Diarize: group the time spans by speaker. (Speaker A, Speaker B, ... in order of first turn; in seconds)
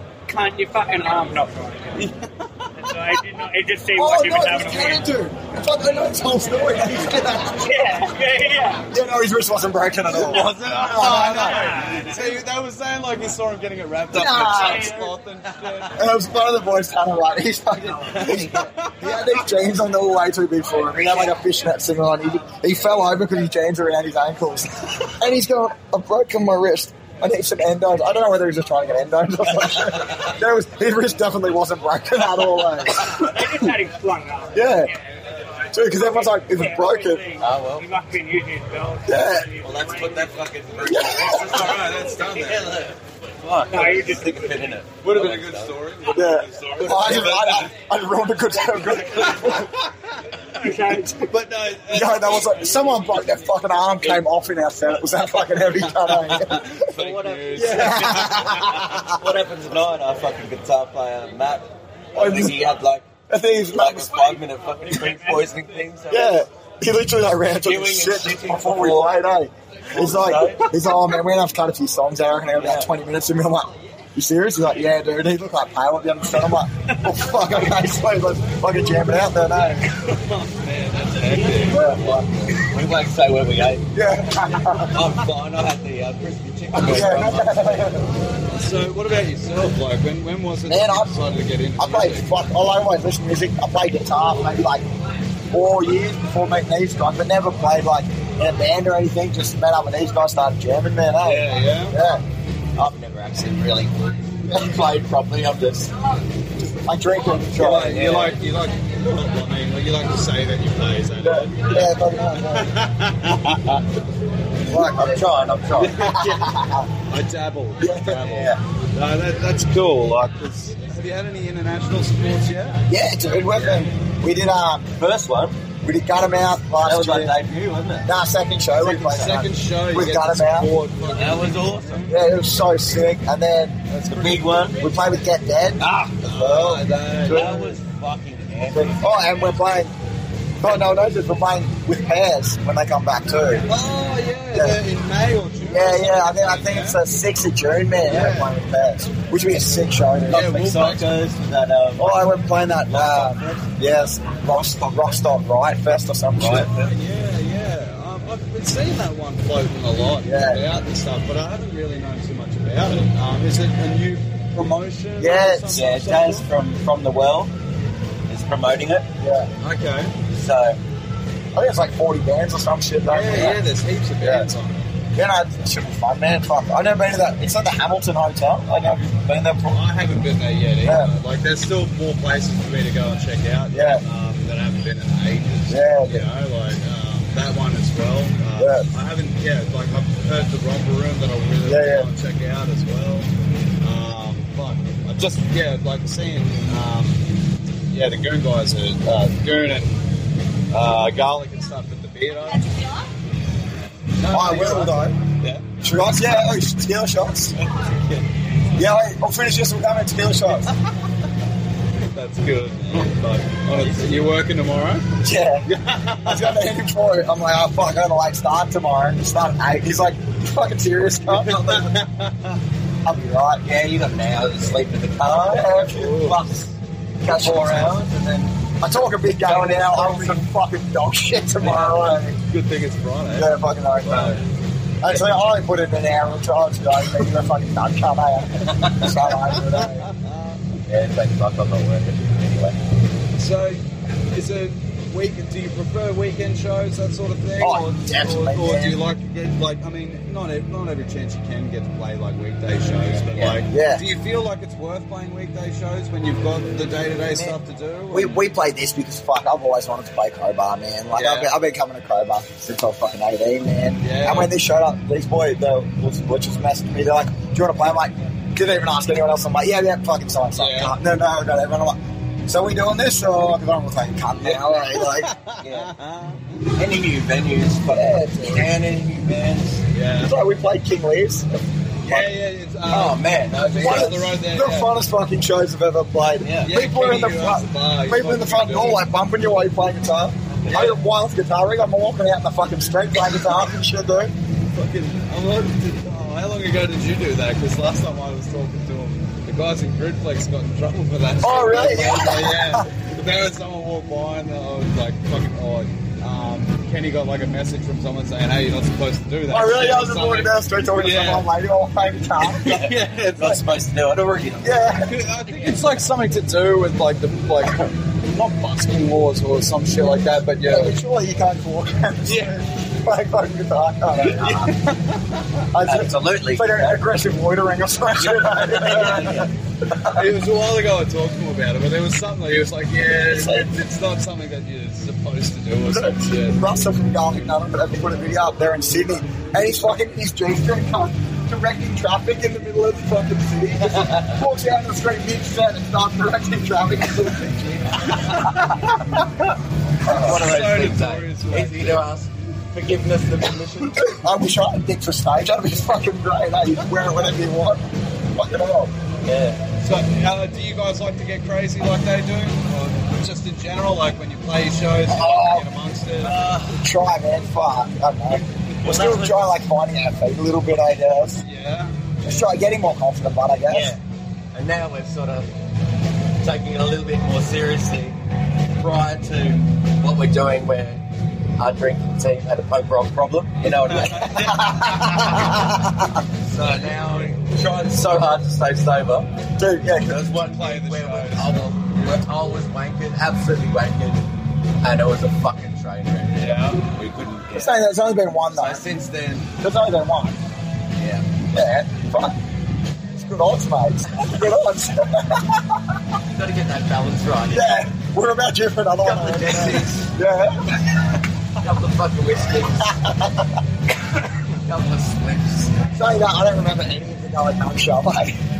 Speaker A: 0.3-2.1, 2.8-5.1, 7.6-8.9, 10.9-12.4, 14.5-15.1, 33.0-40.5, 43.6-44.7, 50.5-51.3, 65.0-65.3
Speaker B: 1.9-2.9, 10.1-16.0, 18.1-19.4, 41.3-42.8, 45.0-47.7, 49.1-50.3, 51.1-53.0, 55.8-59.0, 79.9-82.6, 88.5-92.3, 101.2-102.0, 107.6-113.8, 115.8-116.5, 117.1-122.8, 128.7-132.2, 133.9-134.5, 136.1-137.5, 143.7-147.0, 148.0-148.5, 150.3-151.1, 156.4-166.4, 169.6-170.1, 173.0-174.8, 179.7-193.3, 193.8-197.3, 197.9-200.0, 200.7-202.8, 204.2-205.7, 212.1-216.6, 221.3-222.6, 225.9-226.4, 229.5-230.3, 231.6-234.4, 239.5-240.8, 243.4-258.4, 261.1-261.5, 264.0-264.5, 270.6-270.9, 274.4-276.6, 279.9-280.3, 282.0-284.9, 286.6-289.1, 290.7-291.0, 294.7-311.5, 312.4-313.6, 315.0-321.0, 322.2-322.6, 324.2-325.6, 330.0-336.6, 348.1-349.2, 350.1-352.1, 359.8-366.4, 371.4-371.9, 383.7-385.4, 386.6-387.0, 390.3-392.1, 396.3-396.9
Speaker C: 3.9-8.1, 8.9-11.7, 14.1-15.0, 15.9-33.7, 34.5-34.9, 35.7-37.2, 39.0-39.5, 40.8-41.7, 46.1-49.7, 51.9-56.9, 57.5-59.2, 62.1-62.7, 63.3-64.4, 66.1-79.9, 81.7-82.5, 83.9-85.0, 86.7-88.1, 90.7-91.1, 91.8-94.8, 95.5-102.2, 106.8-108.0, 111.2-112.7, 114.6-115.3, 116.0-116.9, 117.8-118.2, 122.9-124.9, 125.8-127.3, 128.0-130.7, 132.1-133.8, 134.8-135.8, 136.4-137.8, 138.7-139.9, 140.6-143.7, 145.7-150.5, 152.0-156.7, 160.2-160.6, 165.2-165.7, 169.2-169.5, 171.5-173.6, 174.2-174.5, 175.1-179.8, 180.8-181.1, 183.7-184.0, 185.7-186.3, 188.6-188.9, 191.6-192.1, 204.3-205.2, 205.8-207.6, 208.8-210.7, 215.2-215.7, 216.2-221.9, 223.0-223.6, 225.2-226.4, 227.2-228.0, 228.8-232.4, 233.3-234.4, 235.0-240.1, 247.6-249.0, 253.7-254.0, 258.1-275.3, 277.9-278.7, 280.2-282.3, 283.8-294.3, 301.4-302.9, 309.5-312.9, 314.6-315.2, 320.6-324.7, 325.7-330.3, 333.2-333.8, 335.9-348.8, 350.0-350.5, 354.0-358.9, 365.1-365.7, 366.6-371.4, 372.2-373.9, 384.4-386.2, 389.6-390.2, 397.5-398.8, 399.6-400.4, 401.5-402.4, 403.1-405.9, 407.5-410.8, 412.8-413.6, 415.9-418.4
Speaker D: 10.2-11.2, 37.4-37.9, 39.6-45.8, 46.9-47.4, 56.8-63.1, 63.7-66.5, 67.6-69.2, 69.9-70.7, 72.6-72.9, 82.5-83.9, 84.8-87.9, 102.8-105.9, 107.7-108.4, 114.9-116.0, 118.2-118.6, 125.0-125.6, 126.8-128.1, 131.1-132.1, 134.1-134.8, 135.8-136.8, 137.3-139.2, 150.3-152.1, 152.9-153.7, 156.4-156.9, 165.7-167.5, 168.3-169.1, 170.3-170.8, 223.6-225.7, 226.3-226.7, 227.2-228.5, 238.7-239.1, 240.8-242.8, 253.3-253.6, 275.6-275.9, 276.8-279.8, 282.9-284.4, 286.4-286.7, 312.6-314.8, 325.8-327.0, 328.2-329.5, 343.8-344.4, 350.0-354.2, 359.2-359.6, 366.2-366.8, 368.8-369.6, 373.7-374.0, 374.5-375.5, 376.4-378.2, 378.8-381.0, 381.6-384.7, 386.4-389.3, 390.0-394.3, 394.8-397.8, 398.5-399.5, 401.0-401.3, 406.2-407.7, 409.0-410.1, 411.6-413.0, 414.5-415.8